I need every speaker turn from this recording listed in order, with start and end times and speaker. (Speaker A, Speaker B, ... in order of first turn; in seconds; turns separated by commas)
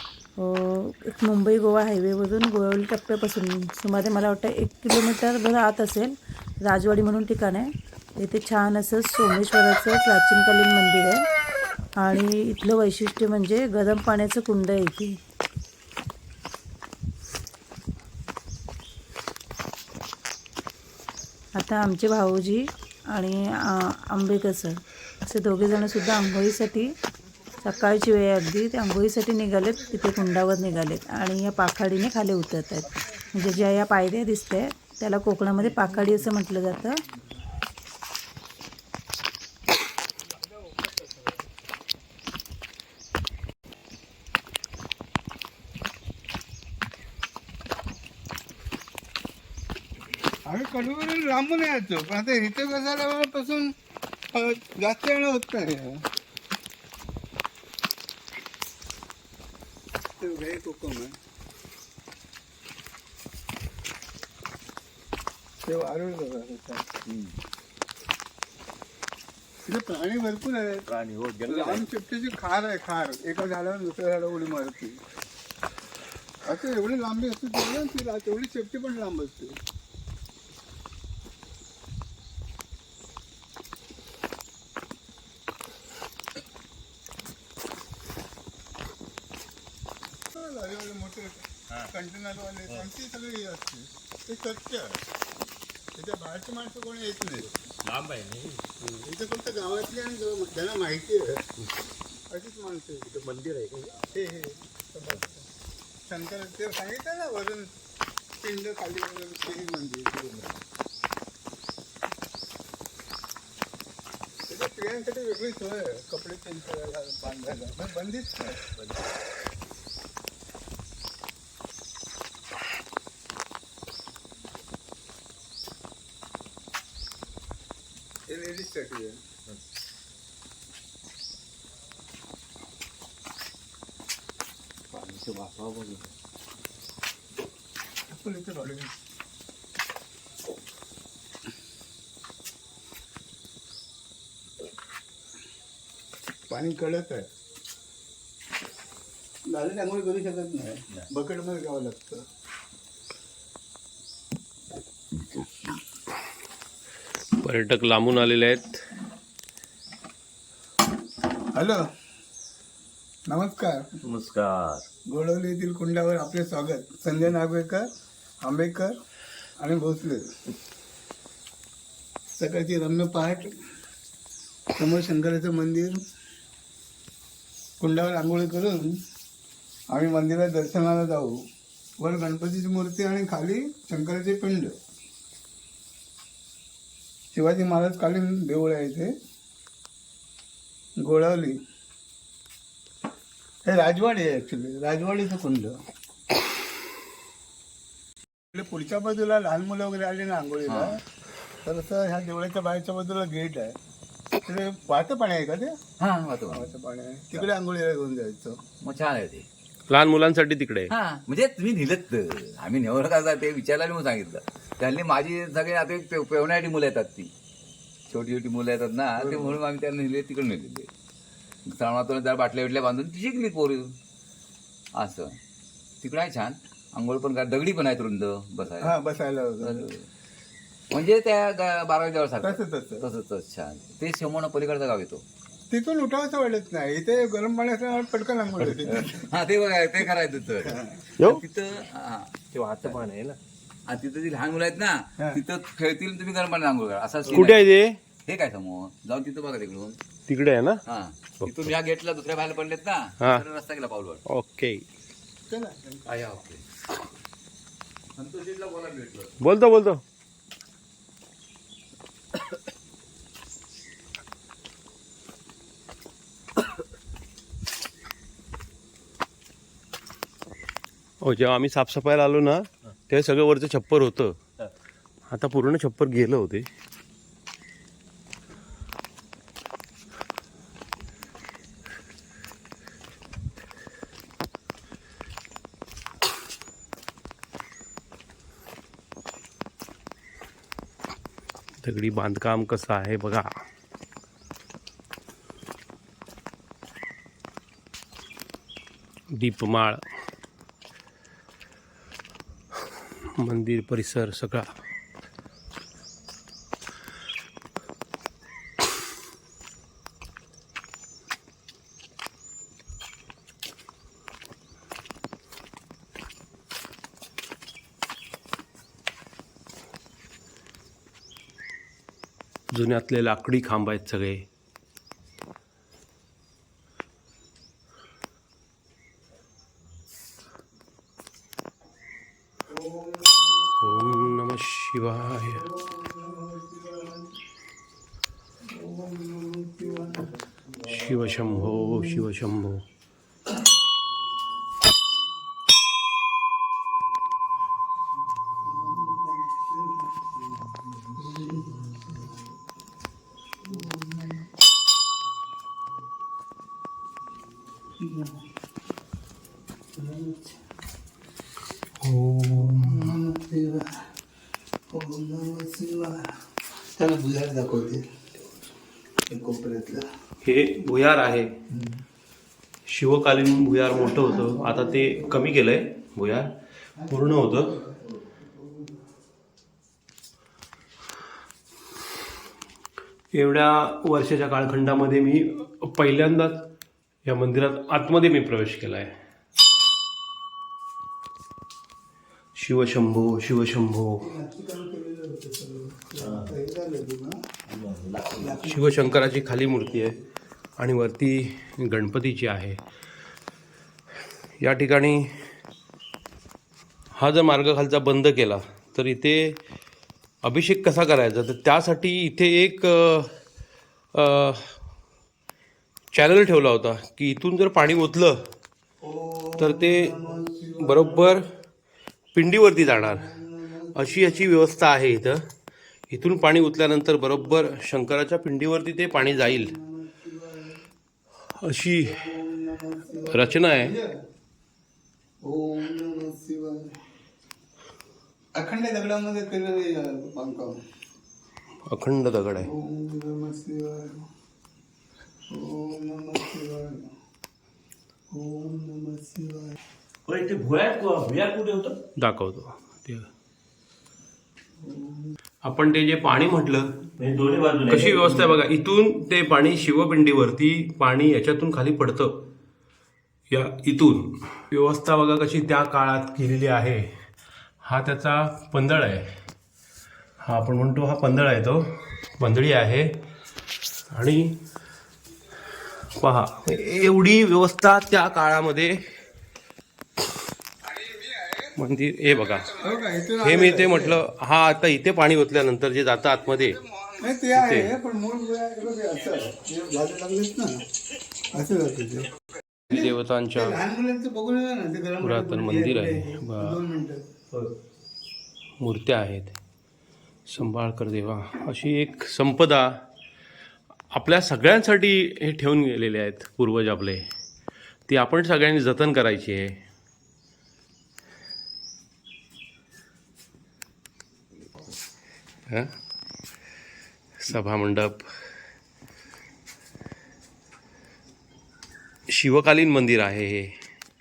Speaker A: 0.4-11.2, Speaker A: 12.0-15.2, Speaker A: 21.5-26.9, Speaker A: 27.6-37.0, Speaker B: 32.9-34.0, Speaker B: 35.8-36.2, Speaker B: 40.4-41.4, Speaker B: 50.5-53.7, Speaker B: 54.3-56.0, Speaker B: 60.2-61.1, Speaker B: 65.6-66.8, Speaker C: 67.1-67.3, Speaker B: 69.7-70.8, Speaker C: 70.9-71.6, Speaker D: 71.0-71.8, Speaker B: 71.5-75.0, Speaker B: 76.4-79.6, Speaker B: 90.3-95.0, Speaker B: 96.0-97.5, Speaker C: 97.9-98.6, Speaker D: 97.9-98.4, Speaker B: 98.8-101.4, Speaker B: 102.3-103.1, Speaker C: 103.2-103.9, Speaker D: 103.3-103.6, Speaker B: 104.0-105.4, Speaker B: 106.1-107.7, Speaker B: 108.4-110.3, Speaker B: 114.5-118.6, Speaker B: 128.3-129.2, Speaker C: 134.9-136.0, Speaker B: 138.1-138.9, Speaker B: 146.5-147.3, Speaker B: 149.5-152.2, Speaker E: 157.4-158.8, Speaker B: 161.5-161.8, Speaker B: 163.3-163.8, Speaker C: 164.1-164.9, Speaker B: 165.1-167.8, Speaker B: 168.4-168.9, Speaker B: 169.6-170.2, Speaker B: 172.4-173.5, Speaker B: 174.8-176.0, Speaker B: 177.8-178.9, Speaker B: 179.9-181.4, Speaker B: 182.0-184.8, Speaker B: 187.3-189.1, Speaker B: 191.0-191.6, Speaker B: 193.6-195.7, Speaker B: 198.5-201.0, Speaker C: 200.7-201.0, Speaker B: 201.6-203.7, Speaker B: 204.4-205.8, Speaker C: 206.0-206.7, Speaker B: 206.5-208.6, Speaker C: 208.8-209.5, Speaker E: 209.9-210.9, Speaker C: 210.9-217.3, Speaker C: 218.1-220.9, Speaker B: 219.2-219.6, Speaker C: 221.7-223.9, Speaker C: 225.0-225.3, Speaker C: 226.0-228.9, Speaker B: 228.8-229.8, Speaker C: 229.6-230.0, Speaker C: 230.9-235.2, Speaker B: 232.4-233.1, Speaker B: 235.7-239.3, Speaker C: 238.8-243.1, Speaker B: 240.6-241.1, Speaker E: 241.2-241.4, Speaker D: 242.5-243.4, Speaker C: 243.9-247.7, Speaker E: 247.3-248.0, Speaker C: 248.2-250.0, Speaker E: 250.3-250.8, Speaker C: 250.9-254.2, Speaker E: 251.4-251.7, Speaker E: 253.2-253.5, Speaker E: 254.2-254.8, Speaker B: 255.5-256.1, Speaker C: 256.1-256.6, Speaker C: 258.2-259.3, Speaker E: 259.4-260.0, Speaker E: 271.2-274.4, Speaker E: 275.3-276.7, Speaker E: 291.8-293.5, Speaker E: 299.4-300.0, Speaker E: 303.4-304.7, Speaker E: 322.7-324.4, Speaker B: 332.7-334.2, Speaker E: 333.8-335.6, Speaker B: 335.5-337.3, Speaker B: 338.7-340.3, Speaker E: 340.9-342.8, Speaker B: 341.5-342.2, Speaker B: 348.6-349.9, Speaker B: 351.1-352.3, Speaker B: 353.6-354.4, Speaker B: 358.0-358.4, Speaker B: 360.0-360.6, Speaker E: 362.0-363.1, Speaker B: 362.8-363.9, Speaker B: 364.9-366.3, Speaker B: 366.9-368.0, Speaker B: 369.3-370.0, Speaker E: 370.4-371.5, Speaker E: 372.9-376.5, Speaker B: 373.9-375.4, Speaker B: 377.0-378.9, Speaker E: 377.1-377.8, Speaker E: 383.3-386.6, Speaker E: 387.2-389.1, Speaker E: 392.6-394.2, Speaker B: 394.2-397.4, Speaker B: 398.3-399.1, Speaker E: 398.7-400.2, Speaker E: 400.8-402.8, Speaker E: 404.6-405.2, Speaker E: 407.1-409.6, Speaker E: 410.4-413.3, Speaker E: 414.1-414.7, Speaker E: 416.1-418.4, Speaker B: 419.0-421.3, Speaker E: 419.6-420.1, Speaker E: 420.8-421.4, Speaker E: 422.3-423.3, Speaker B: 422.9-424.4, Speaker E: 423.9-425.4, Speaker E: 426.1-429.7, Speaker B: 429.2-430.8, Speaker E: 431.6-432.2, Speaker B: 432.0-434.1, Speaker E: 433.3-433.9, Speaker B: 435.4-436.9, Speaker B: 438.5-440.8, Speaker E: 441.9-442.7, Speaker B: 442.6-444.2, Speaker B: 445.5-447.1, Speaker B: 448.3-449.8, Speaker D: 450.3-451.9, Speaker E: 452.2-453.3, Speaker B: 454.8-455.3, Speaker E: 455.6-456.9, Speaker D: 457.2-458.5, Speaker E: 457.9-462.3, Speaker E: 463.5-467.1, Speaker E: 467.8-469.2, Speaker E: 470.4-471.8, Speaker E: 472.4-473.1, Speaker E: 474.1-474.5, Speaker E: 476.2-478.9, Speaker E: 481.8-482.7, Speaker B: 482.7-484.2, Speaker E: 483.4-486.8, Speaker B: 487.1-490.8, Speaker E: 487.5-487.9, Speaker B: 491.5-492.3, Speaker B: 492.9-497.2, Speaker E: 492.9-493.8, Speaker E: 495.2-496.8, Speaker E: 498.8-499.6, Speaker E: 500.5-502.9, Speaker E: 504.1-507.2, Speaker E: 508.1-509.7, Speaker E: 517.4-518.2, Speaker E: 522.3-523.7